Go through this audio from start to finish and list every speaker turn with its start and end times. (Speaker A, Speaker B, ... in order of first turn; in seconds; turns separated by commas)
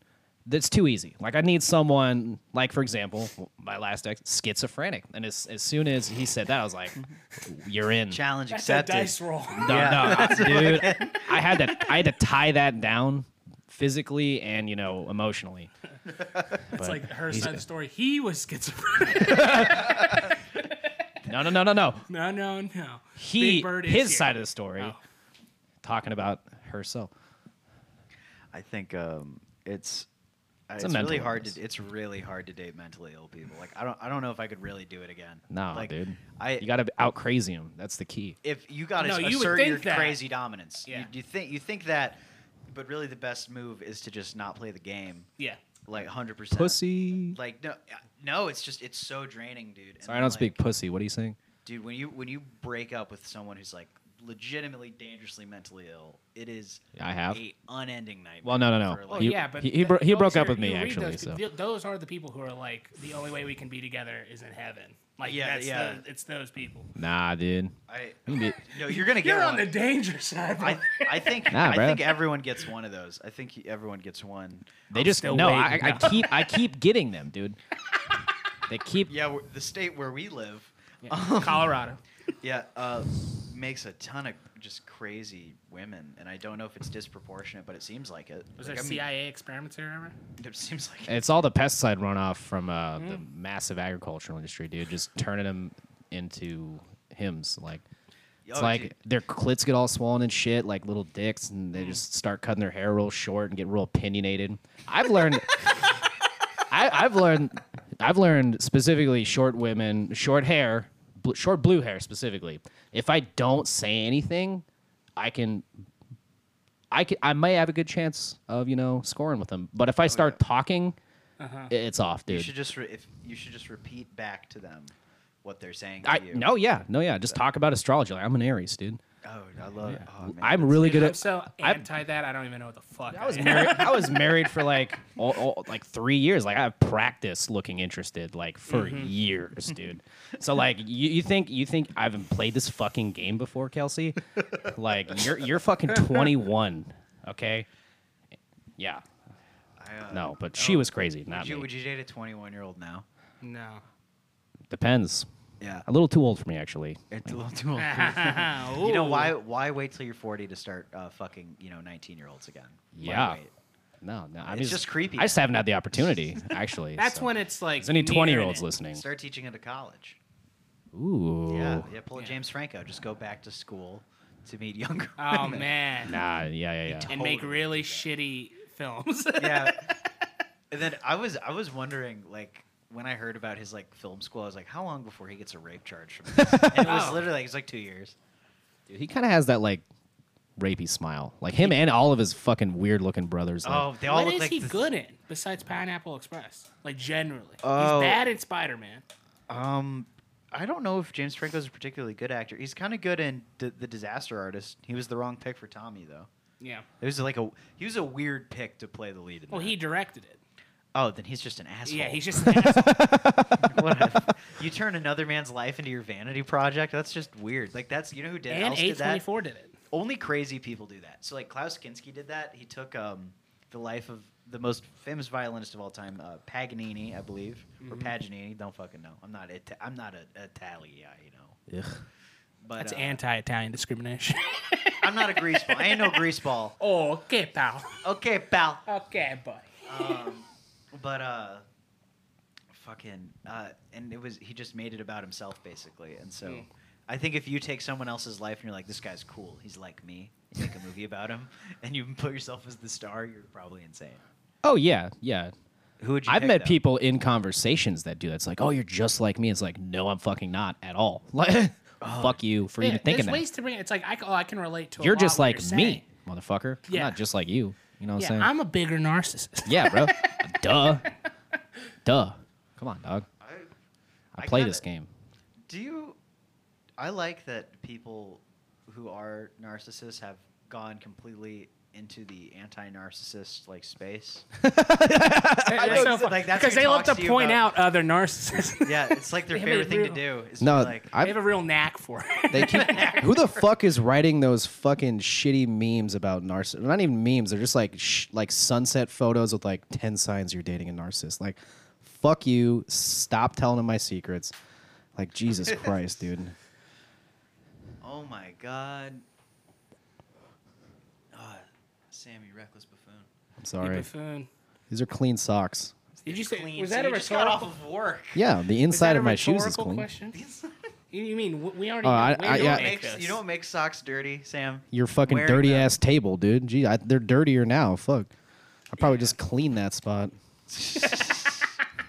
Speaker A: 0.5-8.2, Speaker B: 8.1-11.6, Speaker C: 8.5-10.9, Speaker A: 9.5-15.7, Speaker C: 16.6-20.7, Speaker A: 16.7-17.6, Speaker A: 19.2-20.3, Speaker A: 21.2-22.1, Speaker C: 22.1-25.0, Speaker A: 23.1-24.9, Speaker A: 25.8-27.1, Speaker B: 28.5-30.1, Speaker B: 30.7-36.7, Speaker A: 30.8-31.6, Speaker A: 35.5-38.4, Speaker B: 38.4-45.3, Speaker C: 39.0-40.2, Speaker B: 45.9-50.6, Speaker A: 46.5-47.4, Speaker A: 50.0-51.4, Speaker B: 51.6-59.4, Speaker A: 57.0-57.4, Speaker A: 58.4-61.4, Speaker C: 59.1-66.9, Speaker B: 65.2-66.0, Speaker A: 67.0-67.8, Speaker B: 67.9-69.7, Speaker A: 68.3-68.6, Speaker C: 68.8-71.4, Speaker B: 70.6-74.8, Speaker A: 71.5-72.2, Speaker A: 74.9-77.6, Speaker C: 74.9-76.6, Speaker A: 78.7-79.1, Speaker B: 79.1-81.8, Speaker C: 81.0-82.0, Speaker B: 82.4-89.0, Speaker C: 88.6-90.2, Speaker B: 90.4-91.4, Speaker A: 91.1-97.8, Speaker C: 93.0-93.2, Speaker B: 98.5-98.9, Speaker A: 98.5-105.9, Speaker A: 106.7-114.6, Speaker A: 115.2-115.7, Speaker A: 116.9-121.0, Speaker B: 120.0-120.4, Speaker C: 121.4-121.7, Speaker A: 121.7-122.5, Speaker B: 122.3-126.5, Speaker A: 126.0-129.0, Speaker B: 129.2-131.1, Speaker A: 129.8-131.9, Speaker C: 130.7-134.3, Speaker A: 133.1-147.7, Speaker C: 138.7-139.1, Speaker A: 148.8-149.0, Speaker B: 149.8-153.1, Speaker A: 150.1-151.7, Speaker C: 153.4-153.8, Speaker A: 154.7-155.3, Speaker B: 155.6-155.8, Speaker A: 155.8-157.3, Speaker B: 157.1-163.5, Speaker C: 157.8-159.3, Speaker A: 162.9-163.4, Speaker A: 164.0-169.0, Speaker B: 164.4-165.4, Speaker C: 166.9-168.7, Speaker B: 168.9-170.2, Speaker A: 170.9-171.9, Speaker B: 171.5-175.7, Speaker C: 175.2-176.2, Speaker A: 176.0-177.1, Speaker B: 176.9-178.1, Speaker C: 177.0-180.1, Speaker B: 179.4-179.9, Speaker B: 180.7-188.2, Speaker A: 186.4-187.1, Speaker C: 186.8-187.3, Speaker A: 188.9-189.8, Speaker A: 190.6-193.9, Speaker B: 193.6-194.9, Speaker C: 194.0-199.0, Speaker B: 197.6-198.2, Speaker B: 199.5-206.3, Speaker C: 206.6-206.9, Speaker B: 207.0-209.8, Speaker C: 209.5-210.4, Speaker B: 210.9-212.6, Speaker C: 211.8-213.2, Speaker A: 212.4-214.2, Speaker B: 213.5-219.2, Speaker C: 218.5-219.8, Speaker B: 219.9-231.6, Speaker C: 227.8-228.1, Speaker A: 231.7-232.0, Speaker B: 232.6-233.2, Speaker C: 232.8-236.3, Speaker B: 235.0-236.7, Speaker C: 236.8-238.0, Speaker B: 238.0-238.8, Speaker C: 238.8-240.3, Speaker B: 239.8-241.6, Speaker B: 242.7-254.2, Speaker A: 254.6-255.5, Speaker B: 256.0-256.8, Speaker A: 256.2-263.4, Speaker B: 262.0-262.4, Speaker C: 262.8-266.0, Speaker A: 265.0-268.5, Speaker C: 266.9-267.2, Speaker C: 268.2-270.5, Speaker A: 269.6-271.1, Speaker A: 272.0-273.2, Speaker B: 273.4-273.7, Speaker A: 274.3-275.1, Speaker B: 274.4-274.8, Speaker B: 275.7-276.2, Speaker B: 277.0-284.4, Speaker A: 284.6-286.2, Speaker C: 285.7-290.3, Speaker B: 285.7-287.6, Speaker B: 288.8-291.1, Speaker A: 290.6-291.4, Speaker C: 291.2-293.3, Speaker A: 292.5-304.5, Speaker B: 292.6-293.3, Speaker A: 305.1-306.5, Speaker B: 305.7-305.9, Speaker B: 308.0-309.2, Speaker B: 311.3-313.3, Speaker A: 313.6-314.1, Speaker C: 313.8-314.5, Speaker A: 314.9-315.9, Speaker B: 316.2-318.4, Speaker C: 316.2-317.7, Speaker A: 318.3-320.1, Speaker C: 318.9-320.4, Speaker B: 320.3-320.8, Speaker C: 321.1-323.4, Speaker A: 322.0-322.9, Speaker B: 322.4-325.9, Speaker A: 324.9-328.3, Speaker A: 328.9-330.3, Speaker B: 329.0-329.3, Speaker B: 330.7-331.8